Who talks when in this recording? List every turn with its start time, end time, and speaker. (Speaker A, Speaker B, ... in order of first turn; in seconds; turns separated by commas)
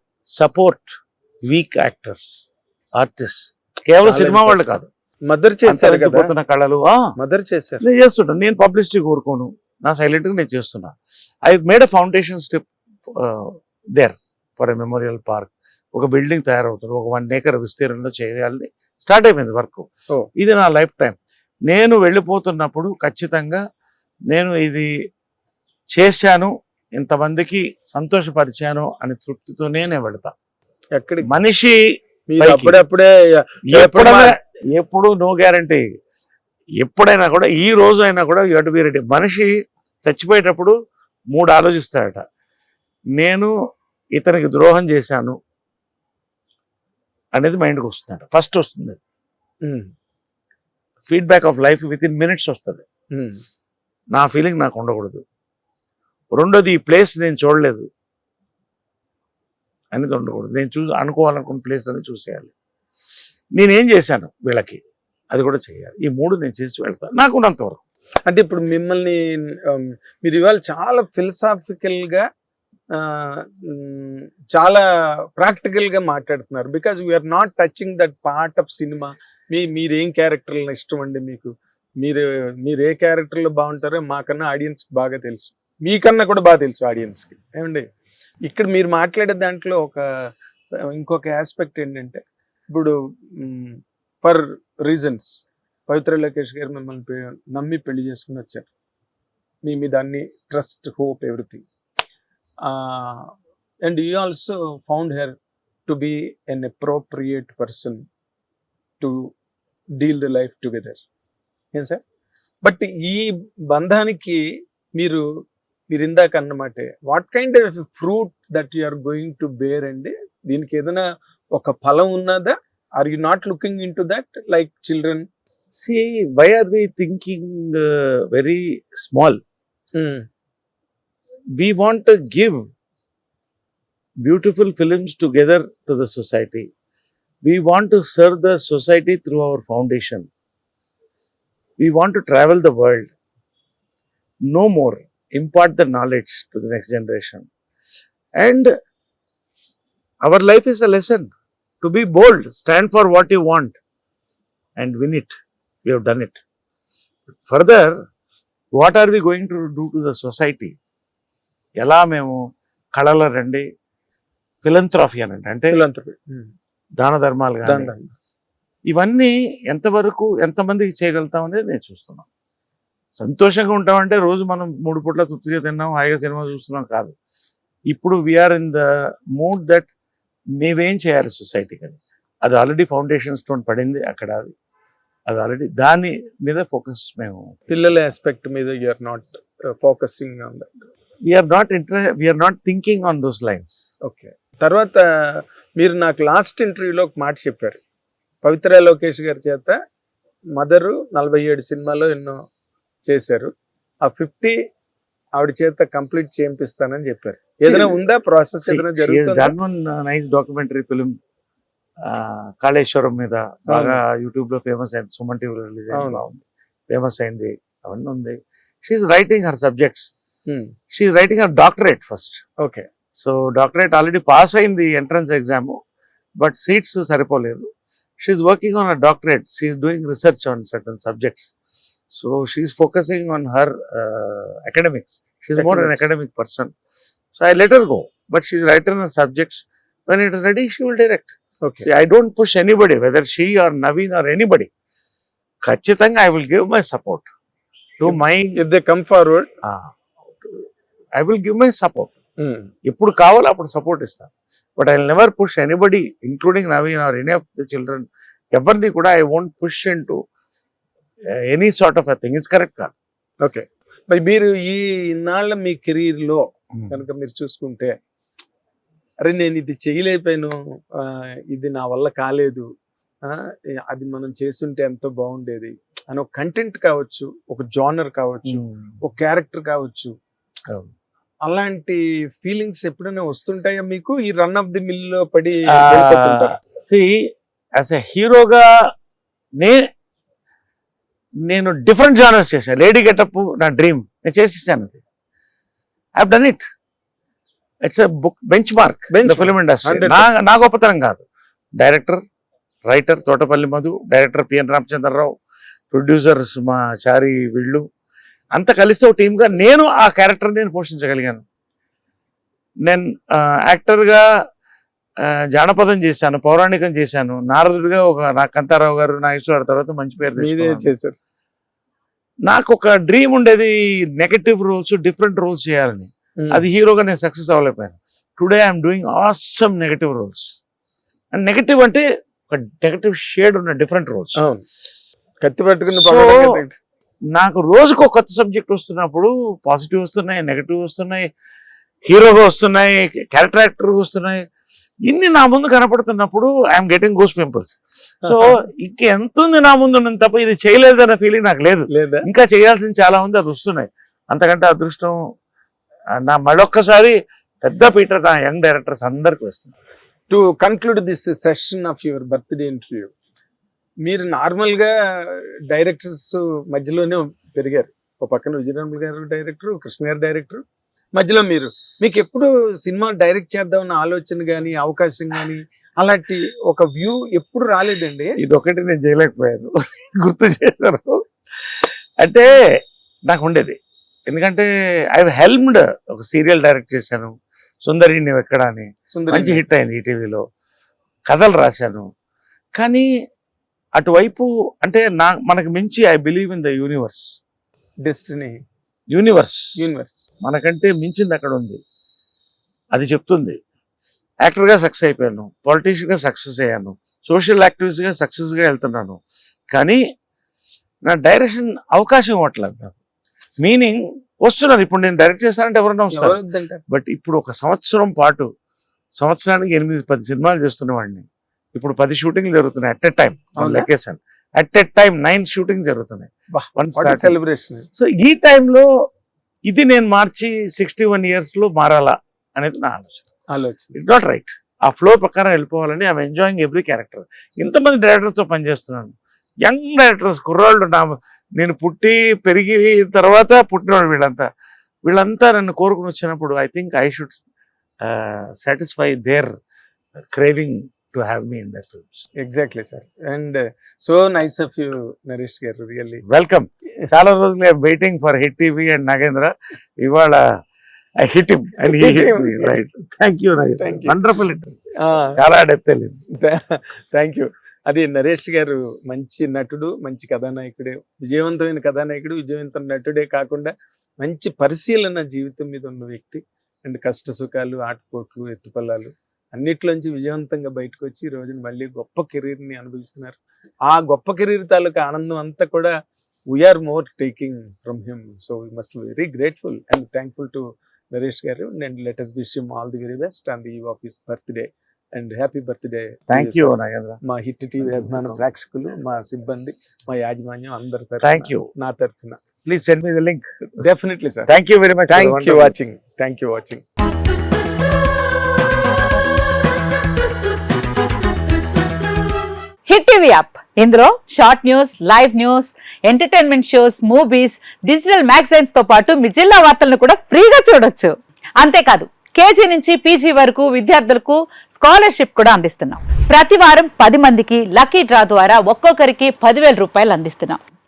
Speaker A: 0.3-0.9, Speaker A: 1.4-2.4, Speaker A: 3.0-4.9, Speaker B: 4.0-4.6, Speaker B: 5.2-6.3, Speaker A: 5.6-7.0, Speaker B: 7.2-7.8, Speaker A: 7.8-10.9, Speaker A: 11.4-21.2, Speaker A: 21.7-23.6, Speaker A: 24.3-24.9, Speaker A: 25.9-30.3, Speaker B: 30.9-31.3, Speaker A: 31.2-31.8, Speaker B: 32.3-34.3, Speaker A: 32.4-32.8, Speaker A: 33.7-35.8, Speaker A: 36.8-39.5, Speaker A: 40.0-40.7, Speaker A: 41.3-42.2, Speaker A: 43.2-43.5, Speaker A: 44.1-45.4, Speaker A: 47.3-49.0, Speaker B: 49.6-49.9, Speaker A: 51.1-52.8, Speaker B: 53.1-53.4, Speaker A: 54.1-55.2, Speaker A: 56.3-57.9, Speaker A: 59.9-62.5, Speaker A: 63.5-64.8, Speaker A: 65.3-67.8, Speaker B: 68.2-72.2, Speaker B: 72.9-74.8, Speaker B: 75.4-87.8, Speaker B: 88.4-90.1, Speaker B: 90.9-98.7, Speaker B: 99.6-101.6, Speaker B: 102.6-103.3, Speaker B: 103.8-105.3, Speaker B: 105.9-108.0, Speaker B: 109.0-109.3, Speaker B: 110.0-111.0, Speaker B: 111.7-112.0, Speaker B: 112.6-114.4, Speaker B: 115.0-115.2, Speaker B: 115.9-125.3, Speaker A: 125.8-129.4, Speaker B: 129.9-130.2, Speaker A: 131.6-132.7, Speaker A: 134.2-136.7, Speaker A: 137.4-140.3, Speaker A: 141.8-143.1, Speaker A: 144.5-147.4, Speaker A: 148.4-148.7, Speaker A: 150.2-151.3, Speaker A: 151.8-153.8, Speaker A: 154.8-156.4, Speaker A: 157.4-157.9, Speaker A: 158.8-160.7, Speaker A: 161.8-162.4, Speaker A: 162.9-163.6, Speaker A: 164.6-165.8, Speaker B: 165.7-166.5, Speaker A: 167.0-167.9, Speaker B: 167.6-168.1, Speaker A: 168.9-172.2, Speaker A: 173.2-177.1, Speaker A: 177.9-178.8, Speaker A: 179.4-179.9, Speaker A: 180.6-184.5, Speaker A: 185.3-187.5, Speaker B: 187.7-190.7, Speaker A: 191.2-193.8, Speaker B: 194.0-197.8, Speaker B: 198.4-199.8, Speaker B: 200.6-202.4, Speaker B: 203.1-203.5, Speaker B: 204.0-204.6, Speaker B: 205.4-209.5, Speaker A: 207.6-207.9, Speaker A: 208.7-211.1, Speaker A: 212.1-220.1, Speaker B: 213.7-214.0, Speaker B: 215.9-216.2, Speaker B: 220.5-220.7, Speaker A: 220.9-222.4, Speaker B: 222.6-222.8, Speaker A: 223.2-225.8, Speaker A: 226.4-227.7, Speaker A: 228.2-231.5, Speaker A: 232.1-236.7, Speaker B: 235.6-235.9, Speaker A: 237.4-244.7, Speaker A: 245.6-247.2, Speaker A: 248.0-248.6, Speaker B: 248.1-249.5, Speaker A: 249.6-249.9, Speaker A: 251.2-252.1, Speaker B: 252.4-252.7, Speaker A: 252.8-260.2, Speaker A: 261.5-262.9, Speaker B: 263.4-267.9, Speaker B: 269.2-272.7, Speaker B: 273.2-280.1, Speaker A: 278.5-278.9, Speaker B: 281.4-286.6, Speaker A: 286.8-288.7, Speaker A: 291.4-295.0, Speaker A: 296.2-296.6, Speaker A: 297.8-301.2, Speaker B: 299.1-300.4, Speaker A: 301.8-302.2, Speaker A: 302.9-305.3, Speaker A: 305.9-307.8, Speaker A: 308.5-311.4, Speaker A: 312.9-314.2, Speaker A: 315.2-320.9, Speaker B: 320.4-321.1, Speaker A: 322.5-330.5, Speaker B: 326.4-326.6, Speaker A: 331.3-334.4, Speaker B: 334.4-334.6, Speaker B: 335.4-336.8, Speaker A: 335.9-336.5, Speaker A: 337.3-341.3, Speaker A: 342.1-344.4, Speaker A: 345.1-355.1, Speaker B: 348.2-348.5, Speaker B: 351.9-352.2, Speaker A: 356.2-359.7, Speaker B: 360.3-363.1, Speaker B: 364.0-370.6, Speaker B: 371.1-378.4, Speaker A: 378.4-381.2, Speaker A: 382.2-382.5, Speaker A: 383.3-383.8, Speaker A: 384.3-387.3, Speaker A: 387.8-390.4, Speaker B: 389.1-389.6, Speaker A: 391.3-392.1, Speaker A: 392.8-393.1, Speaker A: 394.0-397.2, Speaker B: 398.0-398.6, Speaker A: 399.1-399.6, Speaker B: 399.8-400.3, Speaker A: 400.4-401.8, Speaker A: 402.9-403.6, Speaker A: 404.4-409.2, Speaker A: 409.7-410.0, Speaker A: 411.1-412.9, Speaker A: 413.6-416.4, Speaker B: 416.1-416.8, Speaker A: 416.9-418.5, Speaker A: 419.2-427.3, Speaker B: 423.6-423.9, Speaker B: 426.5-427.9, Speaker A: 427.9-428.9, Speaker A: 429.7-433.2, Speaker B: 433.5-433.9, Speaker A: 433.9-439.1, Speaker A: 439.6-444.4, Speaker A: 445.1-447.4, Speaker A: 448.0-449.5, Speaker A: 450.3-452.2, Speaker B: 452.4-456.2, Speaker A: 456.3-460.4, Speaker A: 461.2-464.8, Speaker B: 461.8-462.7, Speaker B: 463.8-464.1, Speaker B: 465.0-465.4, Speaker A: 465.4-466.2, Speaker B: 466.4-485.9, Speaker B: 486.5-502.4, Speaker A: 496.3-497.2, Speaker A: 497.8-498.4, Speaker A: 501.2-501.7, Speaker A: 502.6-503.4, Speaker B: 503.7-504.5, Speaker A: 504.5-505.7, Speaker B: 505.1-506.8, Speaker C: 513.2-515.7, Speaker C: 518.0-518.7, Speaker C: 520.4-521.0, Speaker C: 522.7-523.2, Speaker C: 525.1-530.5